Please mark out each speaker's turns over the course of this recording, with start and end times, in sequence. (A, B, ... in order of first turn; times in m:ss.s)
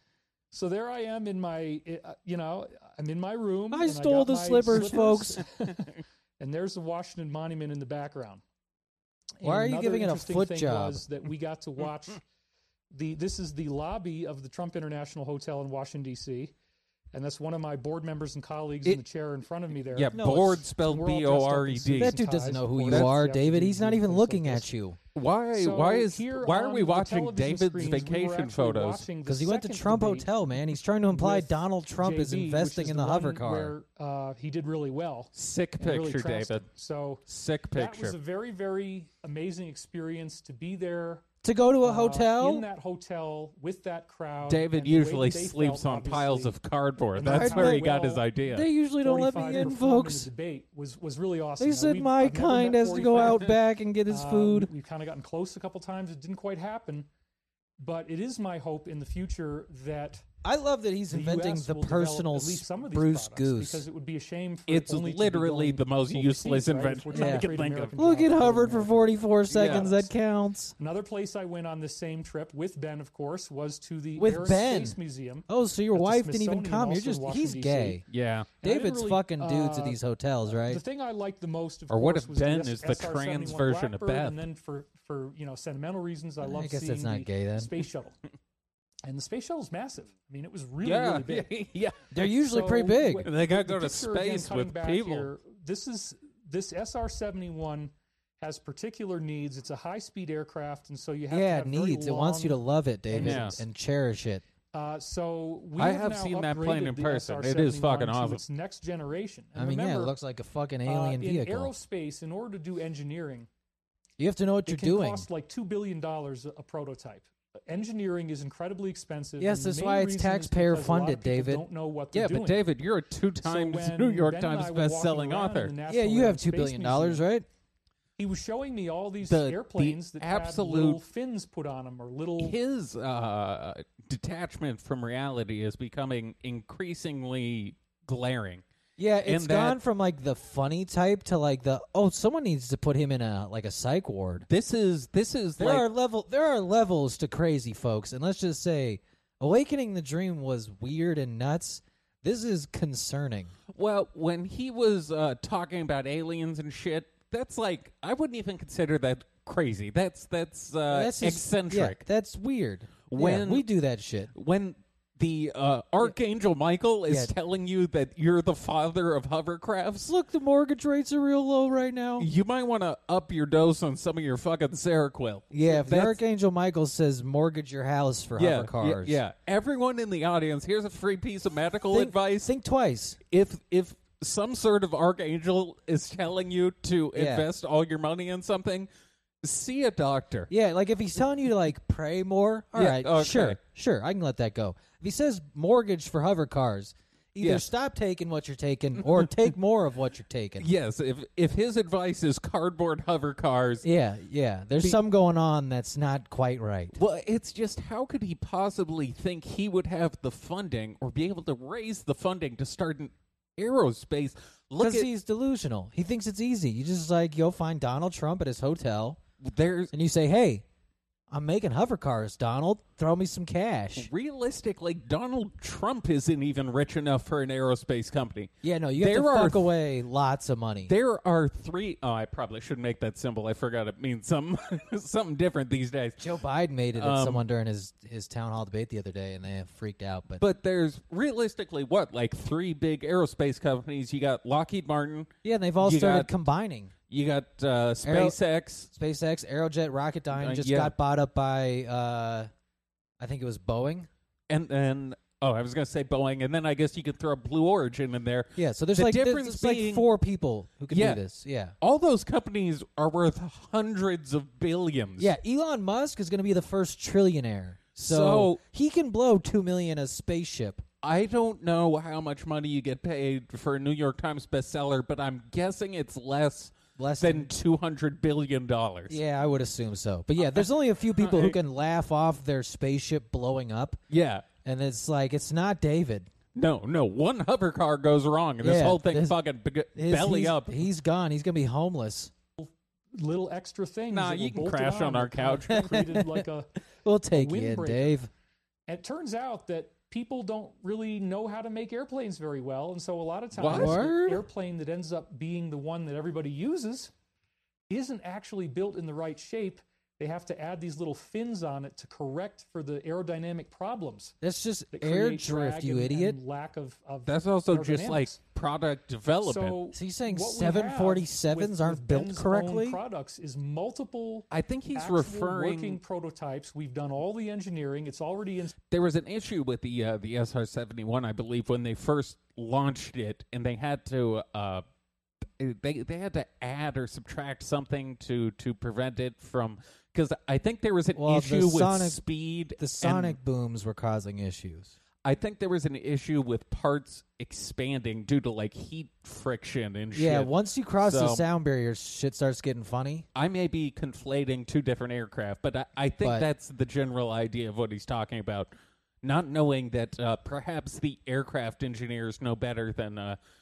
0:00.5-0:08.4 A
0:03.7-0:05.4 B
0:09.4-0:12.2 A
0:09.4-0:11.0 B
0:12.9-0:16.5 A
0:17.1-0:20.1 A
0:19.9-0:22.2 C
0:20.1-0:20.6 B
0:20.8-0:24.7 A
0:22.0-0:25.0 B
0:22.9-0:23.2 C
0:25.2-0:29.1 C
0:25.5-0:30.3 A
0:29.3-0:33.8 B
0:31.1-0:41.2 A
0:35.4-0:36.7 C
0:37.3-0:38.2 C
0:41.4-0:42.7 B
0:41.8-0:46.5 A
0:44.5-0:48.7 C
0:47.2-0:48.3 A
0:47.2-0:50.3 B
0:49.0-0:53.6 A
0:51.6-0:54.7 B
0:54.1-0:57.1 A
0:57.8-1:00.2 A
1:00.4-1:03.8 B
1:01.1-1:10.1 A
1:04.7-1:08.0 C
1:07.1-1:10.8 B
1:09.5-1:09.9 C
1:10.8-1:18.0 A
1:14.2-1:15.0 B
1:15.5-1:18.0 B
1:18.1-1:18.5 C
1:18.6-1:20.0 A
1:18.6-1:20.8 B
1:20.5-1:28.2 A
1:21.9-1:24.4 C
1:26.4-1:27.7 B
1:29.1-1:31.5 A
1:30.8-1:32.1 C
1:32.1-1:33.3 B
1:32.2-1:43.6 A
1:33.2-1:35.3 C
1:41.3-1:44.4 B
1:43.2-1:43.6 C
1:44.7-1:50.1 A
1:45.8-1:48.4 C
1:49.6-1:51.7 B
1:50.9-1:53.5 A
1:54.2-1:55.3 B
1:54.7-2:02.6 A
1:59.4-2:01.6 B
2:02.1-2:05.7 C
2:03.4-2:07.2 A
2:05.9-2:07.5 B
2:08.2-2:12.6 A
2:09.2-2:11.0 C
2:12.4-2:18.6 C
2:19.0-2:24.5 B
2:19.2-2:19.8 C
2:24.5-2:25.9 C
2:25.6-2:33.5 B
2:33.7-2:42.0 C
2:40.9-2:44.3 B
2:43.1-2:43.6 C
2:44.3-2:50.1 C
2:47.1-2:47.3 B
2:50.0-2:52.3 B
2:52.2-2:56.2 C
2:55.5-2:59.2 B
2:58.4-3:02.5 C
3:01.9-3:03.2 B
3:03.3-3:08.9 C
3:07.1-3:07.5 B
3:09.4-3:10.5 C
3:10.5-3:20.7 B
3:12.8-3:13.6 C
3:17.4-3:17.7 C
3:20.6-3:23.9 C
3:23.8-3:27.0 B
3:27.0-3:35.1 C
3:34.8-3:39.2 B
3:39.4-3:39.9 C
3:39.9-3:40.6 B
3:41.3-3:44.1 B
3:44.0-3:49.8 C
3:48.6-3:50.9 B
3:50.9-3:56.3 C
3:56.2-4:00.4 B
3:57.0-3:57.4 C
4:00.4-4:06.3 C
4:05.4-4:06.9 B
4:07.1-4:08.9 C
4:08.0-4:08.4 B
4:08.9-4:12.5 B
4:10.3-4:10.9 C
4:13.2-4:14.1 B
4:14.5-4:20.1 C
4:18.6-4:21.7 B
4:20.9-4:21.2 C
4:21.8-4:25.3 C
4:25.2-4:30.8 B
4:28.0-4:28.6 C
4:31.0-4:39.2 C
4:37.0-4:37.5 B
4:39.1-4:44.0 B
4:41.2-4:41.6 C
4:44.1-4:44.5 C
4:44.6-4:46.3 B
4:46.6-4:50.9 C
4:48.6-4:49.4 B
4:50.0-4:52.3 B
4:52.6-4:56.7 A
4:54.1-4:56.0 C
4:55.7-4:56.4 B
4:57.0-4:58.3 B
4:57.3-4:58.2 A
4:58.9-5:07.1 A
5:03.6-5:04.1 C
5:03.7-5:04.4 B
5:07.9-5:14.4 A
5:14.4-5:16.4 B
5:14.9-5:18.4 A
5:17.3-5:19.8 C
5:19.4-5:28.8 A
5:19.9-5:23.0 B
5:24.5-5:26.0 C
5:28.9-5:34.8 C
5:35.6-5:43.4 C
5:41.2-5:42.2 B
5:42.8-5:44.9 B
5:45.2-5:51.4 C
5:50.1-5:53.2 B
5:53.4-5:58.7 C
5:56.2-5:56.5 B
5:59.2-6:03.4 C